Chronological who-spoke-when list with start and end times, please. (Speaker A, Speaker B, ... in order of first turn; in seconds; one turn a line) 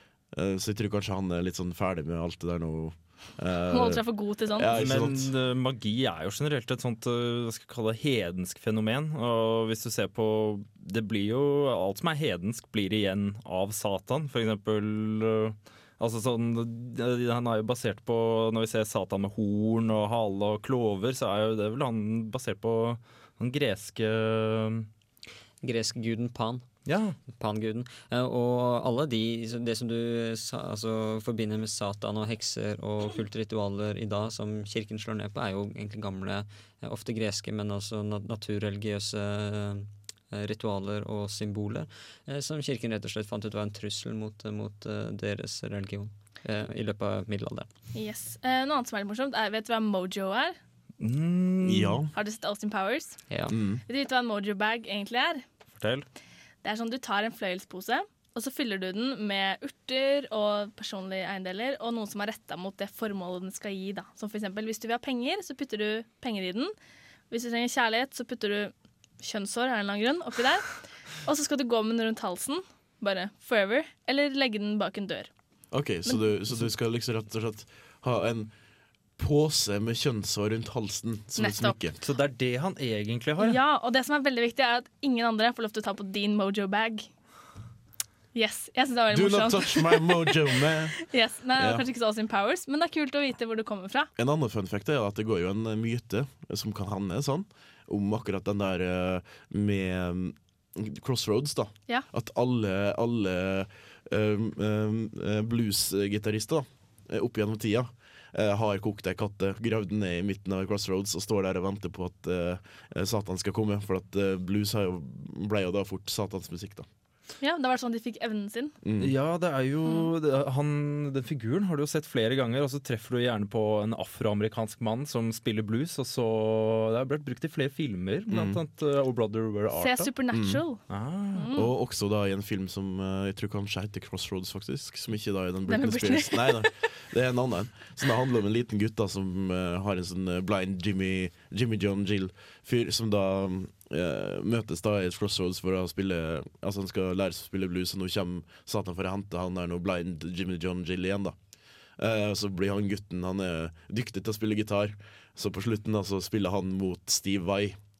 Speaker A: 0.3-5.3
Speaker B: 3.7-4.7
Speaker C: 4.7-24.9
Speaker D: 25.6-26.7
Speaker C: 26.9-27.2
Speaker D: 27.3-47.7
Speaker B: 47.9-50.6
Speaker C: 51.0-52.0
Speaker A: 51.6-52.1
Speaker B: 52.1-53.2
Speaker D: 53.3-53.6
Speaker A: 53.5-53.8
Speaker B: 53.9-55.4
Speaker C: 55.7-56.0
Speaker B: 56.6-66.7
Speaker B: 67.3-75.3
Speaker A: 75.7-78.5
Speaker A: 79.2-82.0
Speaker B: 81.4-81.8
Speaker C: 82.0-83.6
Speaker B: 83.4-87.1
Speaker B: 88.3-94.1
Speaker A: 89.1-91.0
Speaker A: 91.6-91.8
Speaker A: 94.2-116.9
Speaker B: 117.4-118.8
Speaker A: 118.8-119.1
Speaker C: 119.0-130.1
Speaker A: 128.3-128.6
Speaker B: 129.8-130.8
Speaker A: 130.3-130.6
Speaker C: 130.9-131.5
Speaker B: 131.3-131.7
Speaker A: 131.5-151.3
Speaker B: 135.7-136.6
Speaker A: 152.0-157.8